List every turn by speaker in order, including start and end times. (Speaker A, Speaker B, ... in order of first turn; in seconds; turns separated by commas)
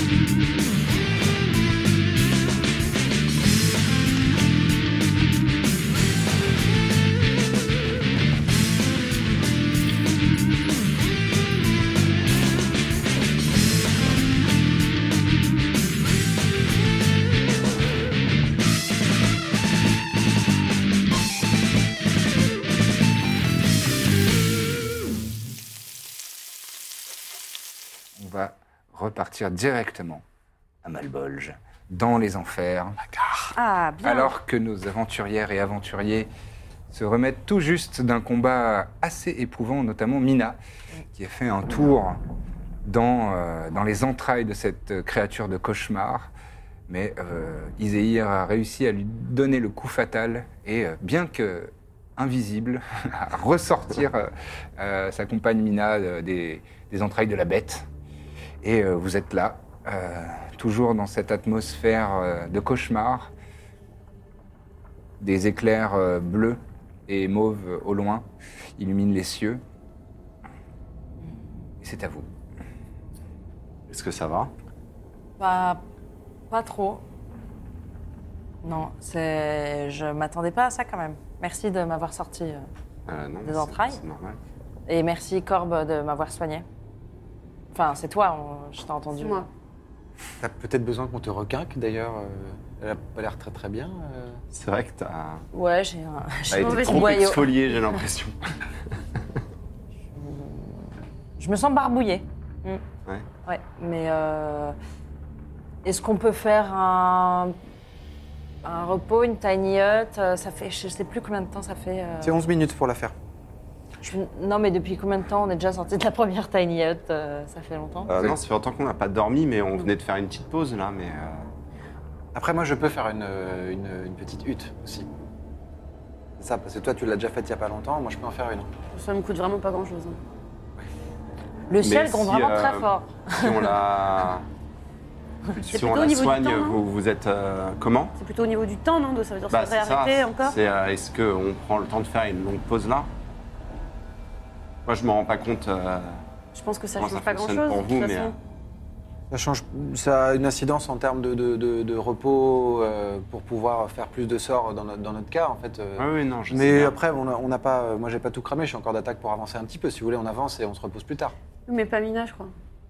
Speaker A: 28.2-30.2, Speaker A: 30.8-33.0, Speaker B: 33.5-34.3, Speaker A: 34.0-36.3, Speaker A: 36.9-40.6, Speaker A: 41.1-42.2, Speaker A: 42.8-46.3, Speaker A: 46.9-57.9, Speaker A: 58.6-63.3, Speaker A: 65.2-69.6, Speaker A: 71.8-72.3, Speaker C: 73.9-74.5, Speaker D: 75.4-75.8, Speaker D: 76.5-77.0, Speaker D: 78.6-82.7, Speaker C: 83.1-84.4, Speaker D: 83.5-84.0, Speaker D: 84.9-86.7, Speaker D: 87.7-89.5, Speaker B: 89.2-89.5, Speaker E: 90.4-94.4, Speaker C: 94.5-95.5, Speaker D: 95.5-97.6, Speaker C: 96.5-98.5, Speaker B: 96.6-97.1, Speaker D: 100.1-102.8, Speaker D: 103.5-104.8, Speaker D: 105.8-107.6, Speaker D: 108.6-112.4, Speaker E: 112.2-113.2, Speaker D: 114.0-118.1, Speaker C: 118.1-121.5, Speaker E: 122.3-125.1, Speaker E: 126.4-128.7, Speaker B: 128.9-130.2, Speaker D: 131.7-133.7, Speaker C: 131.8-134.4, Speaker C: 135.5-138.2, Speaker B: 135.7-136.8, Speaker B: 138.2-140.6, Speaker C: 139.5-143.1, Speaker C: 144.9-146.2, Speaker B: 146.5-148.4, Speaker C: 147.0-148.3, Speaker E: 149.3-161.3, Speaker C: 156.0-157.0, Speaker B: 161.7-162.5